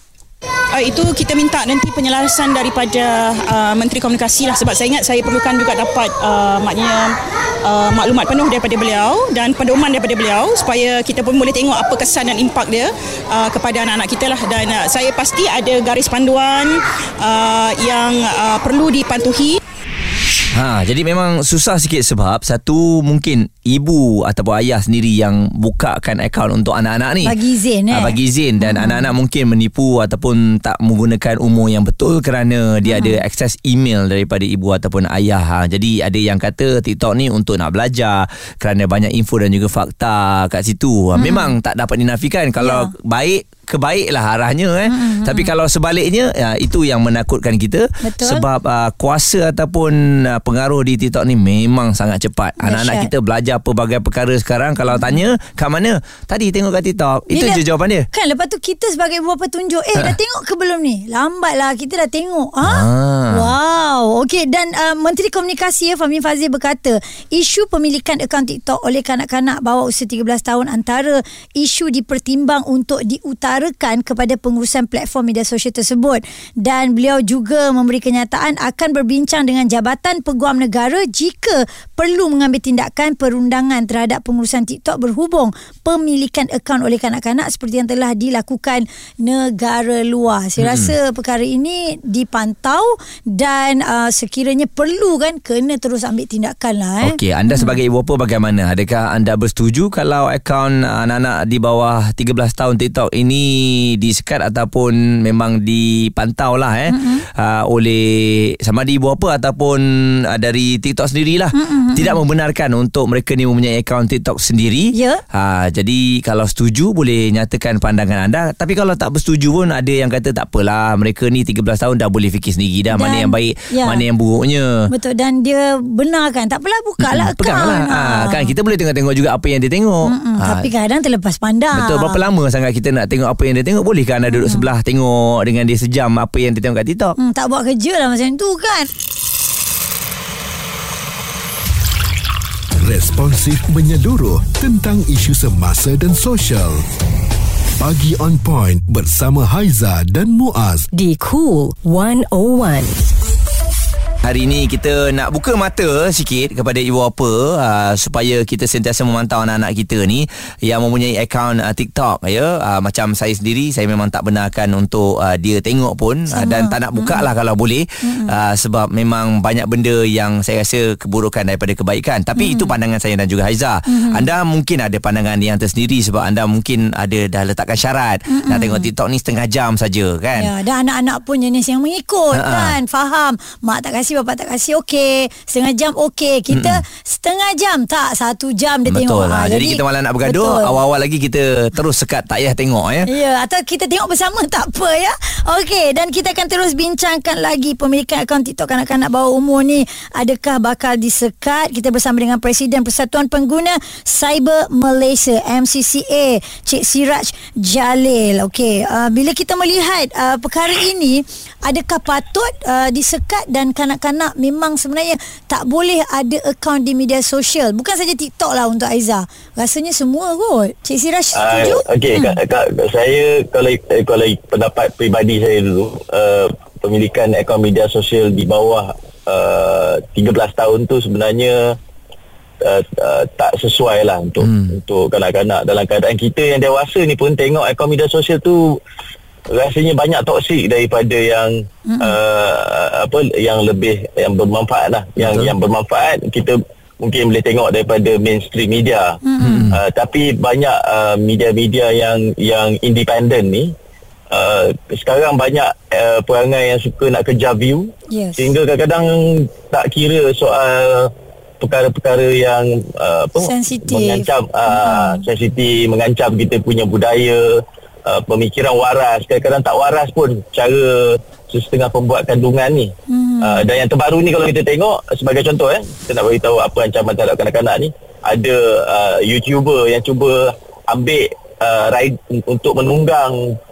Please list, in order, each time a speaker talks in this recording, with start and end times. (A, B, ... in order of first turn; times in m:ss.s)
0:00.7-0:19.6 A
0:20.5-0:27.4 B
0:27.2-0:29.1 C
0:27.9-0:58.1 B
0:32.8-0:33.2 C
0:41.2-0:41.6 C
0:42.6-0:42.9 C
0:44.9-0:45.5 C
0:48.0-0:48.4 C
0:52.6-0:53.1 C
0:57.3-0:57.6 C
0:58.1-1:37.8 C
1:02.6-1:03.5 B
1:30.6-1:30.9 B
1:37.0-2:04.7 B
1:46.9-1:47.2 C
1:51.5-1:52.2 C
1:54.9-1:55.2 C
2:02.9-2:04.0 C
2:04.9-2:08.5 C
2:07.0-2:10.7 B
2:10.1-2:12.2 C
2:11.7-2:17.2 B
2:14.3-2:14.7 C
2:17.2-2:18.9 C
2:22.8-2:26.8 D
2:27.8-2:30.9 D
2:30.9-2:33.0 E
2:34.2-3:00.5 B
2:46.3-2:47.3 C
2:48.0-2:48.3 C
2:52.4-2:52.7 C
2:53.9-2:54.3 C
2:58.3-2:58.9 C
3:00.4-3:10.8 C
3:02.3-3:02.8 B
3:06.5-3:06.8 B
3:08.9-3:13.1 B
3:13.0-3:42.4 C
3:41.3-3:51.7 F
3:52.6-3:58.8 F
3:54.4-3:54.7 B
3:59.5-4:09.2 F
4:01.9-4:02.2 C
4:05.2-4:05.5 B
4:09.2-4:09.7 C
4:09.4-4:09.8 B
4:09.7-4:13.7 F
4:14.3-4:27.5 F
4:18.1-4:18.5 C
4:23.4-4:25.2 C
4:28.1-4:43.4 F
4:33.1-4:33.7 C